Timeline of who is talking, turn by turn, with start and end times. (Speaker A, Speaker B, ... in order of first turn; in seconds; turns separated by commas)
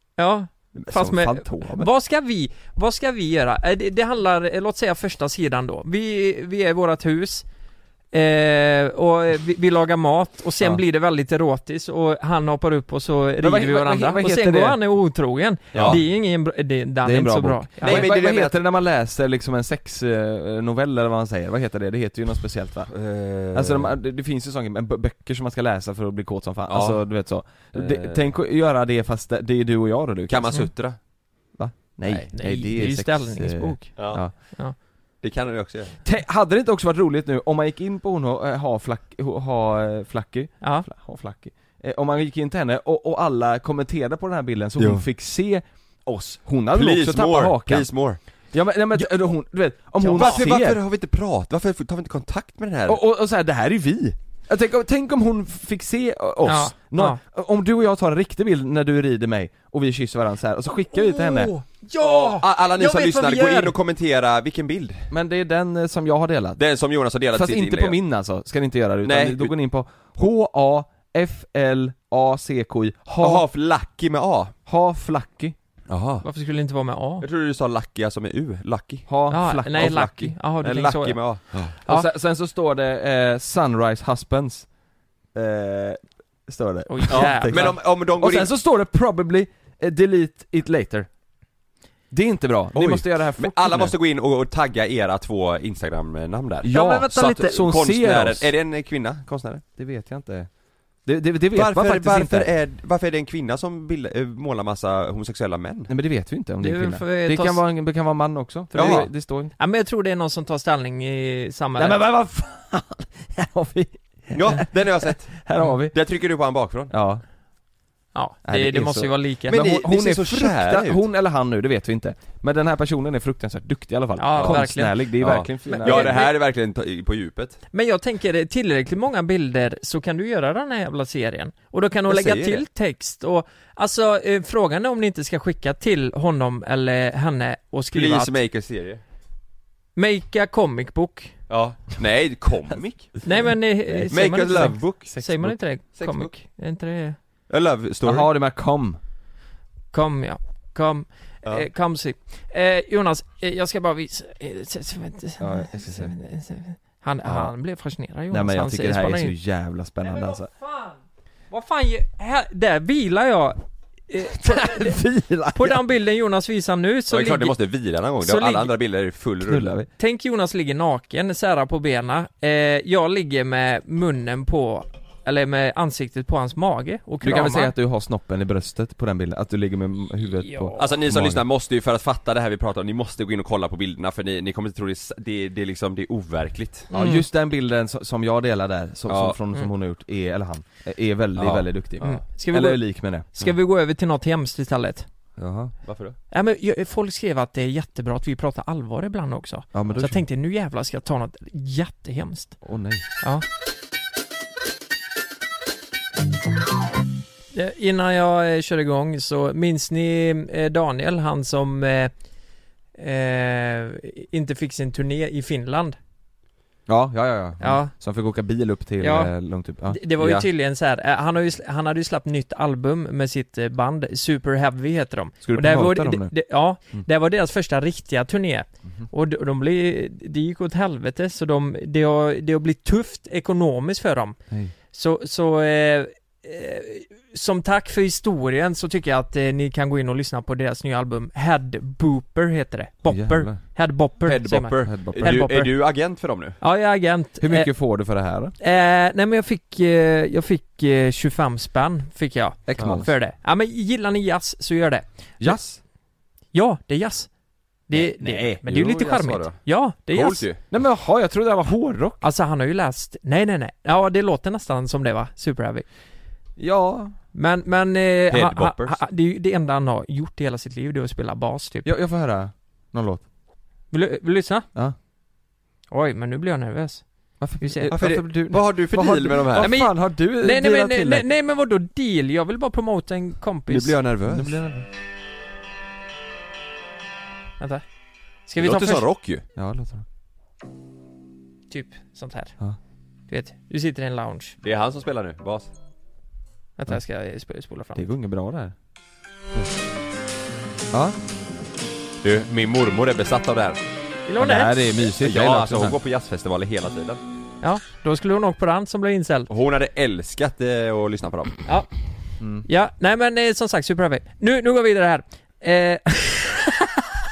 Speaker A: 0.2-7.5, Speaker B: 0.8-1.9, Speaker A: 8.1-18.1, Speaker B: 13.4-14.8, Speaker C: 15.7-16.0, Speaker B: 15.7-16.0, Speaker B: 17.0-22.9, Speaker C: 17.8-18.6, Speaker C: 22.9-23.9, Speaker B: 23.5-30.6, Speaker C: 26.7-28.3, Speaker C: 30.3-31.0, Speaker B: 31.5-34.3, Speaker A: 32.3-34.8, Speaker C: 34.0-34.2, Speaker C: 35.2-36.0, Speaker B: 36.0-47.9, Speaker A: 40.6-40.9, Speaker C: 44.8-45.0, Speaker C: 46.7-48.2, Speaker B: 48.5-50.8, Speaker A: 50.0-50.4, Speaker C: 50.1-53.0, Speaker B: 52.9-61.5, Speaker A: 56.5-57.2, Speaker A: 60.9-63.7, Speaker C: 62.0-65.1, Speaker B: 65.1-66.6, Speaker C: 66.6-68.0, Speaker B: 67.3-73.4, Speaker C: 69.0-69.5, Speaker C: 73.2-74.5, Speaker B: 74.7-75.6, Speaker C: 75.9-76.2, Speaker A: 76.2-77.3, Speaker C: 77.2-79.1, Speaker B: 79.1-80.4, Speaker A: 79.3-81.2, Speaker C: 80.6-81.8, Speaker B: 81.8-84.7, Speaker B: 85.3-91.1, Speaker A: 86.9-87.8, Speaker C: 87.1-88.5, Speaker B: 92.1-93.9, Speaker C: 92.7-99.6, Speaker B: 96.6-98.5, Speaker B: 99.8-100.5, Speaker B: 101.0-102.5, Speaker C: 101.5-105.9, Speaker B: 105.9-109.5, Speaker A: 106.6-107.6, Speaker A: 108.7-109.0, Speaker C: 108.8-109.1, Speaker A: 109.6-112.0, Speaker B: 111.8-116.0, Speaker C: 114.3-116.9, Speaker B: 116.9-117.2, Speaker A: 118.1-119.6, Speaker B: 118.5-126.2, Speaker C: 119.5-121.0, Speaker A: 124.2-125.1, Speaker C: 124.4-124.6, Speaker C: 125.2-127.6, Speaker A: 125.6-126.3, Speaker A: 127.7-138.3, Speaker C: 132.1-132.6, Speaker C: 137.9-139.0, Speaker A: 140.0-141.3, Speaker C: 141.5-143.2, Speaker A: 143.2-147.2, Speaker B: 143.9-145.5, Speaker C: 144.1-145.2, Speaker C: 146.0-146.3, Speaker C: 147.5-148.3, Speaker B: 148.0-149.0, Speaker A: 149.9-159.3, Speaker B: 155.4-156.1, Speaker B: 157.2-157.5, Speaker B: 158.3-160.5, Speaker A: 160.1-161.0, Speaker A: 161.5-165.0, Speaker B: 164.3-165.8, Speaker A: 165.5-167.6, Speaker C: 167.1-169.7, Speaker A: 168.2-168.7, Speaker B: 169.4-169.9, Speaker A: 170.0-177.7, Speaker B: 177.2-181.4, Speaker A: 180.4-181.0, Speaker C: 180.8-186.9, Speaker A: 186.9-187.2, Speaker B: 186.9-193.3, Speaker C: 189.1-189.4, Speaker C: 191.4-191.7, Speaker A: 192.0-195.1, Speaker B: 195.4-195.7, Speaker C: 195.8-196.2, Speaker A: 196.3-202.6, Speaker B: 199.7-200.2, Speaker B: 202.6-203.0, Speaker A: 207.5-212.1, Speaker A: 213.0-216.0, Speaker B: 216.9-220.4, Speaker A: 217.6-217.9, Speaker A: 219.0-219.3, Speaker A: 219.9-234.4, Speaker B: 225.4-226.3, Speaker A: 234.9-245.7, Speaker B: 243.1-243.6, Speaker C: 244.2-246.6, Speaker B: 244.8-245.4, Speaker A: 246.6-247.7, Speaker B: 247.4-248.5, Speaker A: 248.6-255.6, Speaker B: 252.7-253.1, Speaker C: 252.8-253.0, Speaker B: 255.4-255.8, Speaker A: 256.5-257.3, Speaker A: 257.9-260.4, Speaker B: 257.9-258.6, Speaker C: 258.4-260.6, Speaker B: 260.7-262.2, Speaker A: 262.2-265.9, Speaker B: 266.6-267.1, Speaker A: 267.3-271.9, Speaker C: 268.3-269.0, Speaker B: 271.9-273.2, Speaker A: 273.9-274.7, Speaker A: 275.9-277.1, Speaker B: 277.4-281.3, Speaker A: 277.6-277.9, Speaker C: 277.9-279.8, Speaker A: 279.6-284.0, Speaker C: 283.7-284.6, Speaker B: 284.2-284.9, Speaker A: 288.5-289.0, Speaker C: 288.6-289.4, Speaker B: 289.6-290.1, Speaker A: 291.7-292.6, Speaker A: 293.3-294.6, Speaker C: 294.6-295.7, Speaker A: 296.8-298.1, Speaker B: 297.9-298.7, Speaker B: 300.9-301.2, Speaker C: 302.2-303.8, Speaker A: 304.3-304.8, Speaker B: 304.4-306.0, Speaker C: 305.2-307.2, Speaker A: 307.6-309.5, Speaker C: 309.5-311.6, Speaker B: 312.4-312.7, Speaker A: 312.6-317.0